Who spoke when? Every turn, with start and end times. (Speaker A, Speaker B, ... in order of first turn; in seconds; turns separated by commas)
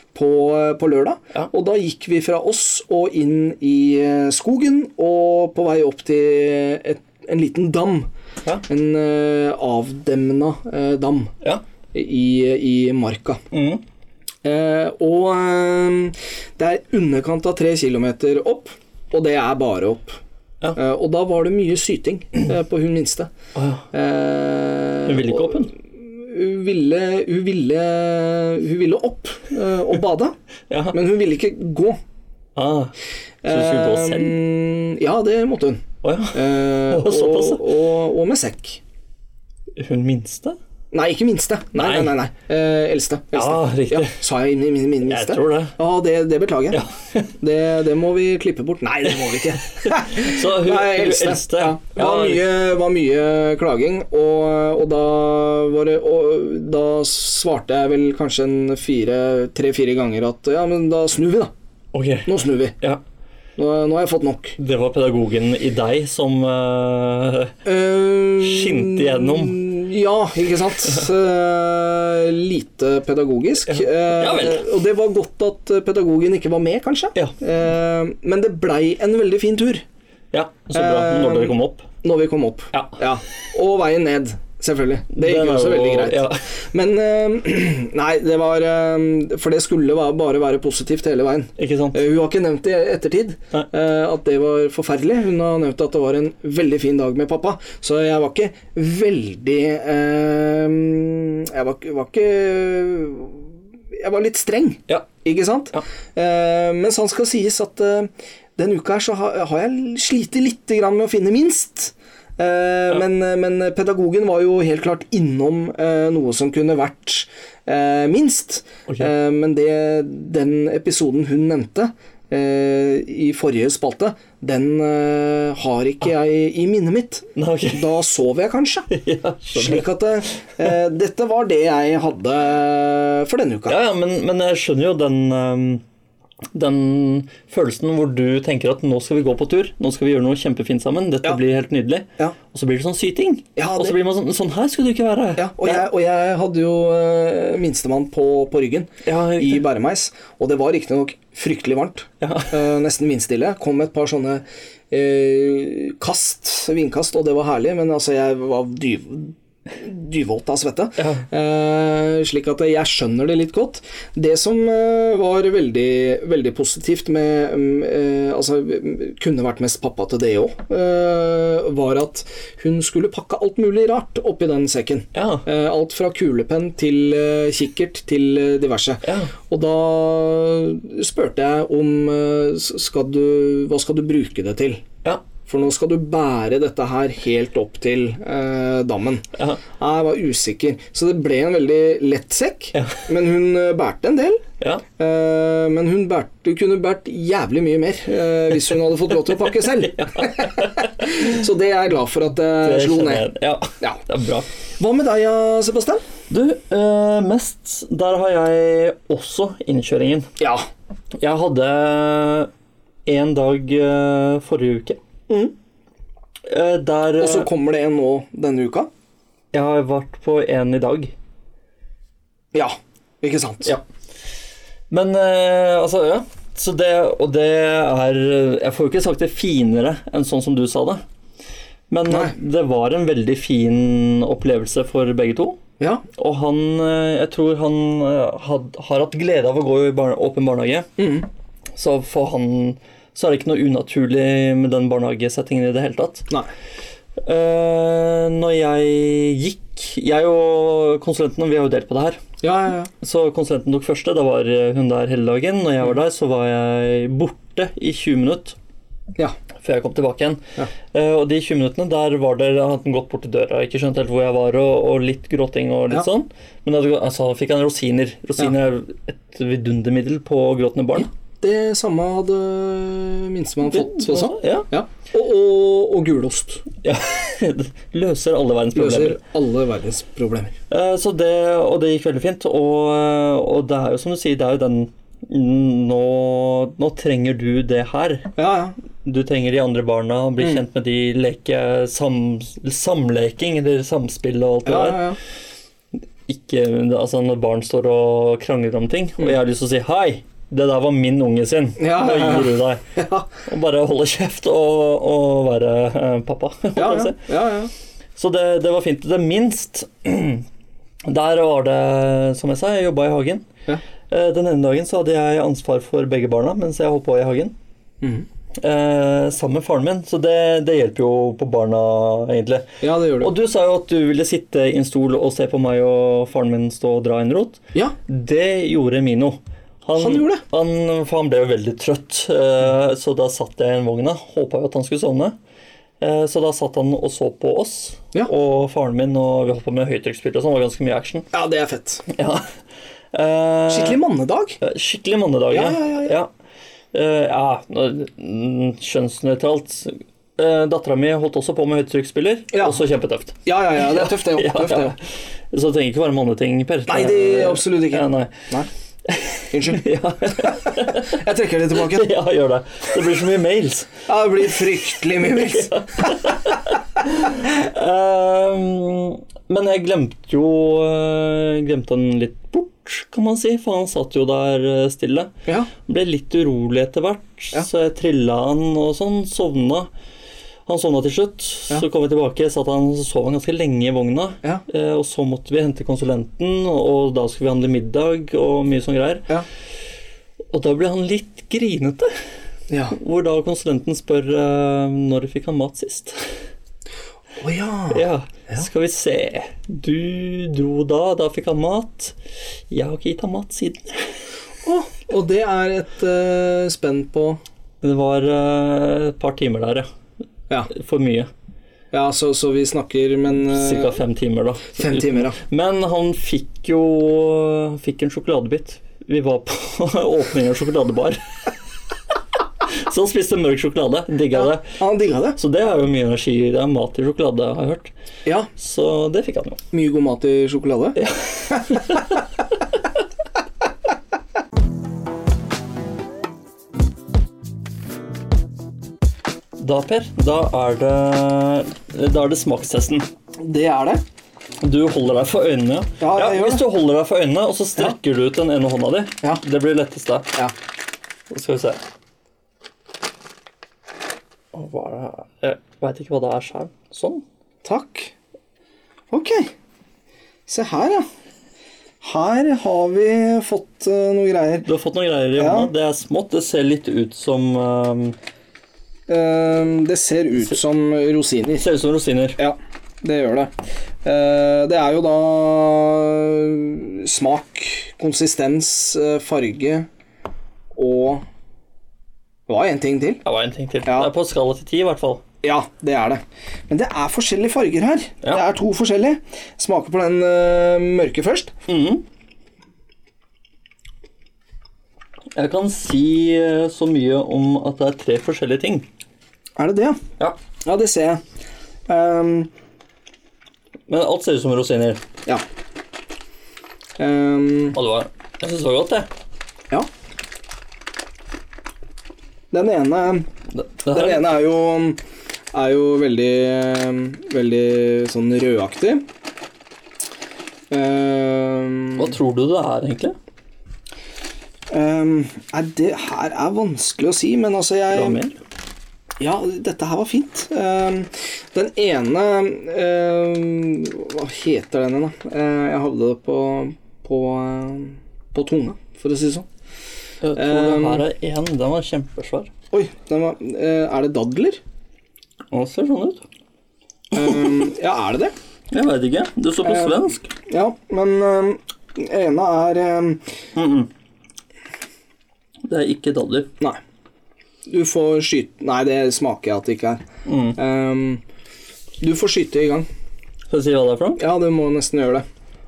Speaker A: 0.1-8.1, Speaker A: 8.7-11.3, Speaker A: 11.9-13.4, Speaker B: 13.5-13.8, Speaker A: 14.4-20.2, Speaker A: 20.8-23.3, Speaker B: 23.6-23.9, Speaker A: 23.9-30.4, Speaker B: 25.0-25.7, Speaker B: 30.7-31.0, Speaker A: 30.9-32.0, Speaker B: 32.5-32.9, Speaker A: 33.4-38.8, Speaker B: 33.5-34.4, Speaker B: 36.0-37.6, Speaker B: 39.8-40.6, Speaker A: 40.9-46.8, Speaker B: 41.8-42.1, Speaker B: 43.3-44.2, Speaker B: 45.0-45.8, Speaker B: 46.7-47.3, Speaker A: 47.4-61.5, Speaker B: 49.7-52.4, Speaker B: 61.9-63.0, Speaker A: 62.2-62.8, Speaker A: 63.6-64.5, Speaker B: 64.6-67.5, Speaker A: 67.6-79.8, Speaker B: 68.4-69.6, Speaker B: 73.7-74.7, Speaker B: 80.3-81.9, Speaker A: 80.7-128.9, Speaker B: 82.7-83.0, Speaker B: 85.1-86.5, Speaker B: 91.6-92.0, Speaker B: 127.3-127.9, Speaker B: 128.9-129.9, Speaker A: 129.5-133.8, Speaker B: 133.7-135.8, Speaker B: 136.5-145.8, Speaker A: 143.6-144.0, Speaker A: 145.4-184.8, Speaker B: 149.0-149.6, Speaker B: 152.2-152.5, Speaker B: 161.0-161.2, Speaker B: 175.1-175.4, Speaker B: 179.0-179.3, Speaker A: 185.4-194.4, Speaker B: 192.7-193.0, Speaker A: 195.0-203.3, Speaker B: 199.8-201.3, Speaker B: 202.6-204.5, Speaker A: 204.8-206.0, Speaker B: 206.3-210.3, Speaker A: 210.4-210.6, Speaker B: 211.2-212.5, Speaker B: 213.1-215.0, Speaker B: 216.5-217.5, Speaker A: 217.2-218.9, Speaker B: 219.5-221.1, Speaker A: 222.5-223.7, Speaker B: 224.9-231.0, Speaker B: 231.9-235.6, Speaker A: 232.1-232.3, Speaker A: 235.8-236.0, Speaker B: 236.1-240.9, Speaker A: 241.0-241.3, Speaker B: 241.8-246.3, Speaker B: 247.2-252.2, Speaker A: 252.4-252.9, Speaker B: 253.0-258.6, Speaker B: 259.6-271.1, Speaker A: 270.9-276.6, Speaker B: 273.7-274.7, Speaker B: 276.8-279.2, Speaker A: 278.7-280.5, Speaker B: 280.7-288.3, Speaker A: 288.4-288.7, Speaker B: 289.0-295.1, Speaker A: 294.6-295.2, Speaker B: 296.3-302.8, Speaker A: 301.8-303.3, Speaker B: 303.4-307.3, Speaker A: 306.8-307.7, Speaker B: 308.2-310.4, Speaker B: 311.1-313.5, Speaker B: 314.1-317.5, Speaker A: 318.0-318.2, Speaker B: 318.6-335.4, Speaker A: 322.8-323.3, Speaker A: 330.0-330.4, Speaker B: 336.0-341.3, Speaker A: 341.3-342.0, Speaker B: 342.1-342.5, Speaker B: 343.1-344.0, Speaker A: 343.7-344.6, Speaker B: 344.6-346.3, Speaker A: 345.5-346.1, Speaker B: 346.9-358.5, Speaker A: 352.5-352.8, Speaker A: 353.4-354.9, Speaker A: 356.9-358.7, Speaker B: 359.1-361.2, Speaker A: 359.5-362.1, Speaker B: 361.7-363.9, Speaker A: 364.1-366.3, Speaker B: 364.9-375.3, Speaker B: 375.9-379.9, Speaker B: 380.7-389.3, Speaker B: 390.5-392.1, Speaker A: 392.7-392.9, Speaker B: 392.9-396.2, Speaker A: 397.4-398.6, Speaker B: 397.9-402.1, Speaker B: 402.7-404.1, Speaker A: 404.6-407.4, Speaker B: 407.8-409.9, Speaker B: 410.7-411.3, Speaker A: 411.9-414.0, Speaker B: 413.4-421.4, Speaker A: 414.8-415.4, Speaker B: 422.7-424.8, Speaker A: 424.3-425.4, Speaker B: 425.4-427.9, Speaker B: 428.6-429.6, Speaker A: 429.7-431.0, Speaker B: 431.0-432.2, Speaker B: 439.6-443.1, Speaker A: 443.4-444.0, Speaker B: 444.6-450.4, Speaker A: 446.0-446.6, Speaker B: 451.3-451.8, Speaker B: 454.5-457.2, Speaker A: 457.6-458.1, Speaker A: 459.1-459.5, Speaker A: 460.5-461.1, Speaker A: 462.0-464.7, Speaker B: 464.6-468.1, Speaker A: 465.4-465.7, Speaker A: 469.1-471.7, Speaker B: 471.6-472.4, Speaker A: 472.4-473.5, Speaker A: 474.0-479.9, Speaker A: 480.7-481.2, Speaker A: 482.5-483.2, Speaker B: 483.2-485.2, Speaker A: 483.9-484.1, Speaker A: 485.4-491.5, Speaker B: 491.7-492.0, Speaker B: 495.4-498.9, Speaker A: 499.6-500.0, Speaker A: 500.6-501.2, Speaker A: 501.9-502.5, Speaker B: 503.9-505.0, Speaker A: 507.0-507.8, Speaker B: 507.7-509.1, Speaker A: 512.5-513.3, Speaker B: 513.5-514.2, Speaker A: 513.9-515.0, Speaker A: 515.5-519.0, Speaker A: 520.7-522.1, Speaker B: 522.0-523.1, Speaker A: 524.7-528.2, Speaker B: 527.9-528.4, Speaker A: 529.2-539.5, Speaker B: 540.2-542.5, Speaker A: 540.3-541.0, Speaker A: 542.7-544.6, Speaker B: 545.5-546.2, Speaker A: 547.1-548.3, Speaker B: 547.2-547.5, Speaker B: 548.7-550.3, Speaker A: 549.6-553.2, Speaker B: 553.5-553.9, Speaker B: 555.6-556.5, Speaker A: 557.7-560.0, Speaker B: 560.2-560.6, Speaker A: 560.5-561.2, Speaker A: 562.0-562.9, Speaker B: 563.5-564.2, Speaker A: 564.2-565.2